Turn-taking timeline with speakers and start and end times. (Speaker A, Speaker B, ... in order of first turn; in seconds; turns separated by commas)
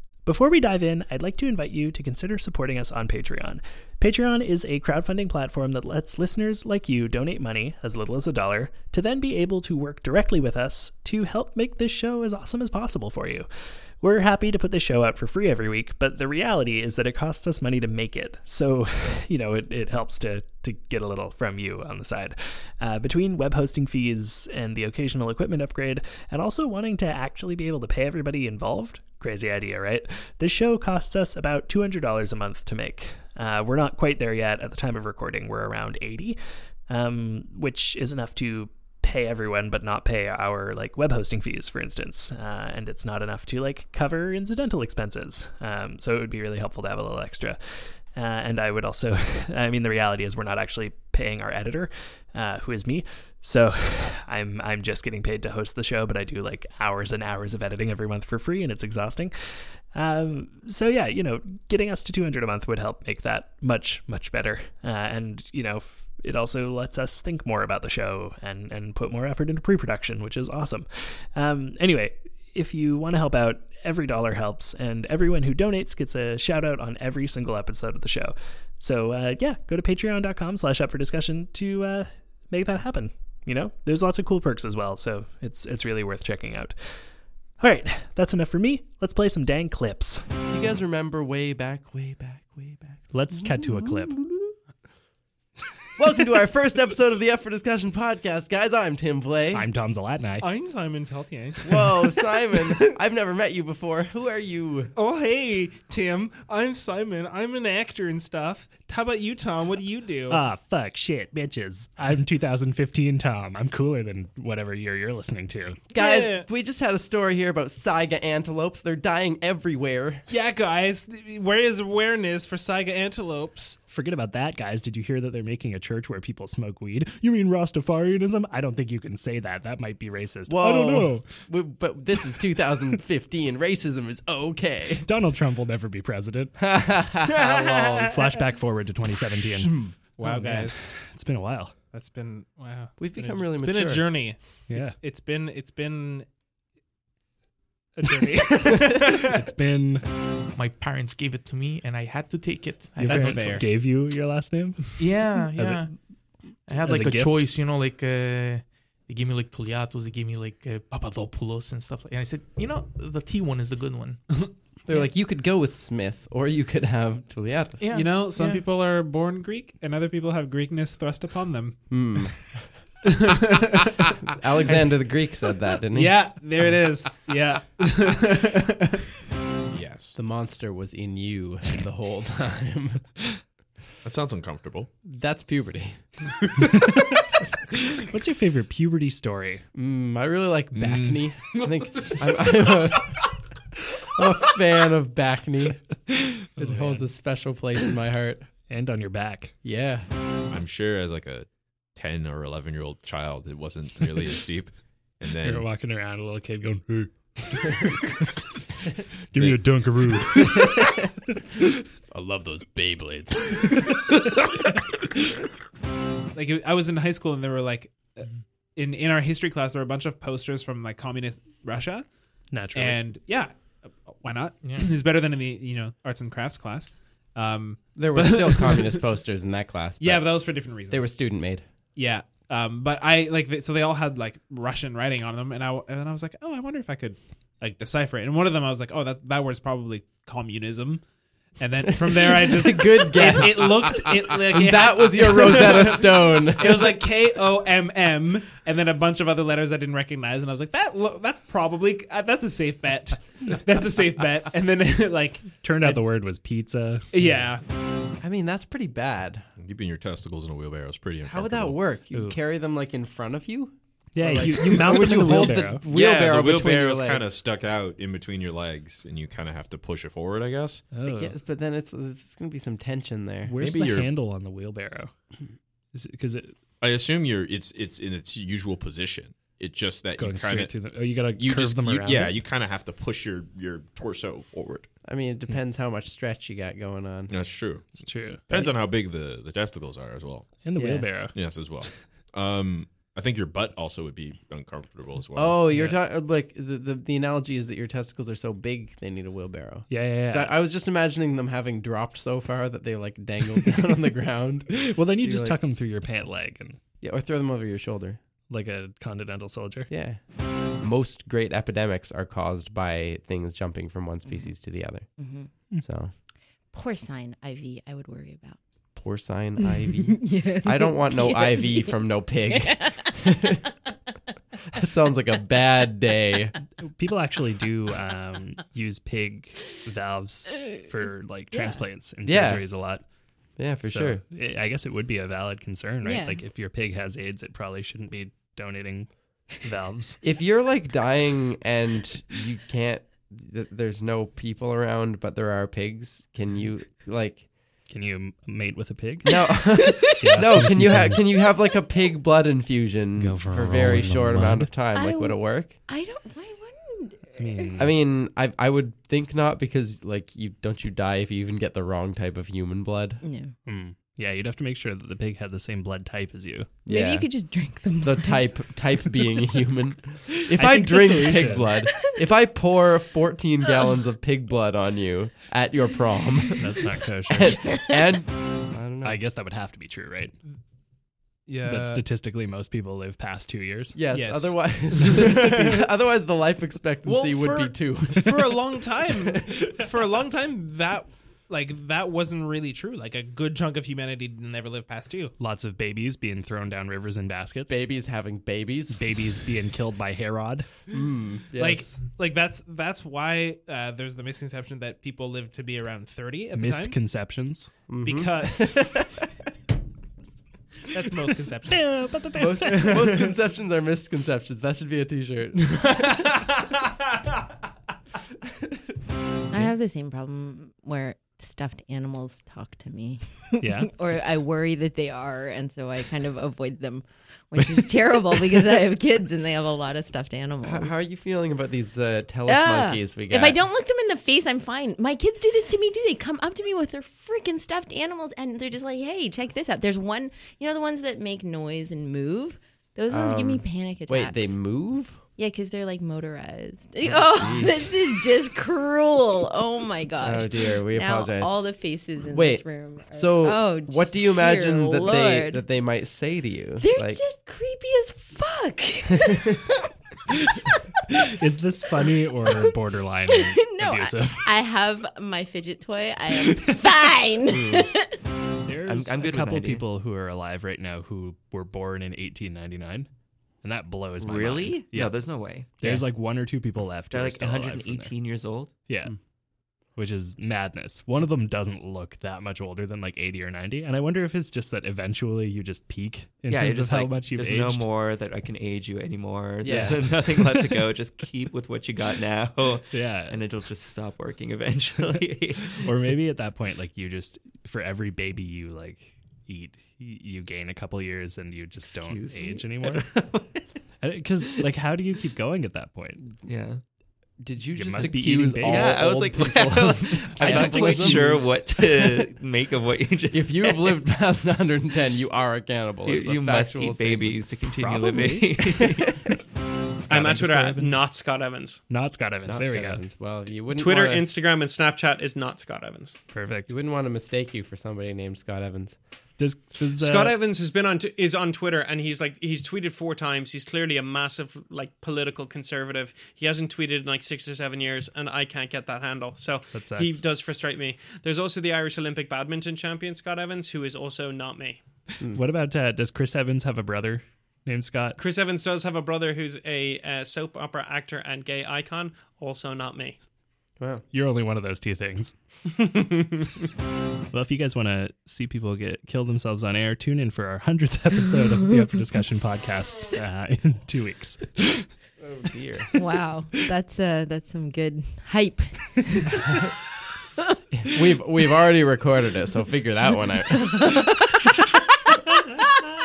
Speaker A: 0.3-90.3, Speaker B: 90.5-94.5, Speaker A: 93.1-94.2, Speaker B: 96.0-99.7, Speaker A: 99.5-100.5, Speaker C: 100.4-102.8, Speaker B: 101.6-104.9, Speaker C: 105.0-110.4, Speaker A: 110.3-115.8, Speaker B: 115.9-120.2, Speaker C: 116.0-116.5, Speaker C: 120.3-123.8, Speaker A: 123.9-131.5, Speaker B: 130.5-135.1, Speaker A: 135.1-136.6, Speaker B: 136.6-138.1, Speaker C: 137.3-138.1, Speaker A: 138.0-141.7, Speaker B: 139.7-139.9, Speaker C: 140.2-141.0, Speaker C: 141.9-146.3, Speaker B: 143.0-144.3, Speaker A: 144.7-145.0, Speaker C: 148.0-149.3, Speaker A: 149.3-150.1, Speaker D: 150.6-153.7, Speaker A: 153.0-157.5, Speaker C: 153.0-153.8, Speaker D: 155.0-164.2, Speaker C: 164.3-164.5, Speaker B: 164.8-167.9, Speaker D: 167.8-168.7, Speaker C: 167.9-172.3, Speaker B: 171.9-172.8, Speaker C: 173.1-173.8, Speaker B: 174.3-176.4, Speaker C: 174.7-175.4, Speaker C: 175.9-179.0, Speaker E: 179.7-180.2, Speaker B: 180.2-183.1, Speaker E: 184.0-184.9, Speaker B: 185.0-186.2, Speaker A: 188.1-189.7, Speaker B: 189.7-193.4, Speaker A: 190.8-191.1, Speaker B: 194.1-198.5, Speaker A: 196.6-197.1, Speaker A: 198.7-199.6, Speaker B: 199.6-200.1, Speaker E: 200.5-205.7, Speaker A: 205.4-210.9, Speaker E: 209.3-210.6, Speaker B: 212.1-213.7, Speaker C: 216.3-229.0, Speaker A: 222.5-223.0, Speaker D: 224.6-224.9, Speaker B: 227.9-231.7, Speaker C: 230.0-256.2, Speaker B: 242.0-247.1, Speaker A: 255.6-257.3, Speaker C: 257.1-257.7, Speaker B: 258.2-259.5, Speaker E: 259.6-261.8, Speaker B: 261.3-267.3, Speaker A: 262.1-262.4, Speaker A: 264.1-265.8, Speaker E: 265.4-270.9, Speaker A: 270.9-271.4, Speaker B: 271.0-273.5, Speaker A: 273.4-275.1, Speaker E: 273.6-274.1, Speaker A: 275.9-276.6, Speaker E: 276.8-285.0, Speaker A: 280.2-282.4, Speaker B: 285.0-287.6, Speaker E: 287.3-295.8, Speaker A: 288.0-288.7, Speaker A: 290.6-291.9, Speaker B: 290.8-291.3, Speaker B: 295.4-305.6, Speaker A: 295.7-296.0, Speaker A: 299.9-300.6, Speaker A: 304.9-306.8, Speaker B: 307.0-308.2, Speaker A: 308.5-309.9, Speaker B: 309.9-316.1, Speaker F: 314.3-314.5, Speaker F: 315.2-315.6, Speaker F: 316.3-318.9, Speaker B: 318.9-323.4, Speaker F: 319.6-323.3, Speaker B: 324.8-326.6, Speaker A: 326.9-340.2, Speaker F: 331.5-331.9, Speaker B: 332.2-332.9, Speaker B: 333.6-334.2, Speaker F: 336.0-336.5, Speaker B: 340.2-347.5, Speaker A: 347.9-351.2, Speaker B: 349.2-355.8, Speaker F: 349.8-350.6, Speaker F: 351.3-351.8, Speaker A: 353.2-354.7, Speaker F: 354.9-357.8, Speaker A: 357.4-358.0, Speaker B: 357.8-363.2, Speaker F: 363.2-363.5, Speaker A: 363.6-366.7, Speaker B: 366.9-367.3, Speaker F: 366.9-369.6, Speaker B: 368.0-376.8, Speaker A: 370.5-371.7, Speaker A: 376.6-377.6, Speaker B: 377.3-379.2, Speaker A: 379.0-380.4, Speaker C: 381.5-382.0, Speaker A: 381.6-384.0, Speaker B: 383.9-388.4, Speaker C: 384.1-385.8, Speaker C: 387.1-395.3, Speaker D: 387.3-387.8, Speaker A: 395.4-397.9, Speaker B: 397.7-399.2, Speaker A: 398.9-400.8, Speaker B: 400.9-402.0, Speaker C: 401.5-407.0, Speaker A: 406.6-407.7, Speaker B: 407.9-409.1, Speaker C: 408.0-409.1, Speaker C: 410.9-413.3, Speaker A: 411.7-412.9, Speaker B: 412.4-415.8, Speaker C: 415.7-416.5, Speaker F: 419.5-431.0, Speaker A: 423.6-423.9, Speaker B: 430.6-433.6, Speaker F: 432.5-455.7, Speaker B: 443.1-445.2, Speaker B: 447.0-447.8, Speaker B: 450.2-457.2, Speaker F: 456.8-459.6, Speaker A: 461.4-464.5, Speaker F: 463.3-468.2, Speaker B: 467.5-467.9, Speaker A: 468.7-473.1, Speaker G: 468.9-469.9, Speaker A: 473.6-478.1, Speaker G: 474.2-476.1, Speaker G: 477.1-478.7, Speaker A: 478.9-487.9, Speaker G: 486.5-495.9, Speaker B: 489.6-490.3, Speaker A: 489.6-490.0, Speaker A: 492.9-493.4, Speaker A: 495.8-506.3, Speaker G: 501.9-503.7, Speaker G: 506.4-506.8, Speaker B: 507.4-511.7, Speaker A: 507.7-509.6, Speaker G: 508.0-514.0, Speaker A: 510.4-511.2, Speaker B: 513.3-517.4, Speaker G: 516.0-519.2, Speaker A: 517.6-519.0, Speaker A: 520.0-521.1, Speaker H: 520.1-521.8, Speaker A: 521.9-523.0, Speaker B: 522.5-524.3, Speaker H: 523.7-526.2, Speaker A: 526.3-526.7, Speaker B: 526.7-529.0, Speaker A: 529.4-530.4, Speaker H: 529.9-544.8, Speaker A: 539.7-540.2, Speaker B: 545.2-545.5, Speaker A: 545.3-548.2, Speaker H: 548.2-553.2, Speaker B: 553.8-554.0, Speaker A: 554.1-555.4, Speaker H: 556.0-556.3, Speaker A: 557.3-565.0, Speaker B: 565.2-565.9, Speaker F: 566.0-569.6, Speaker B: 570.8-573.9, Speaker F: 573.6-573.9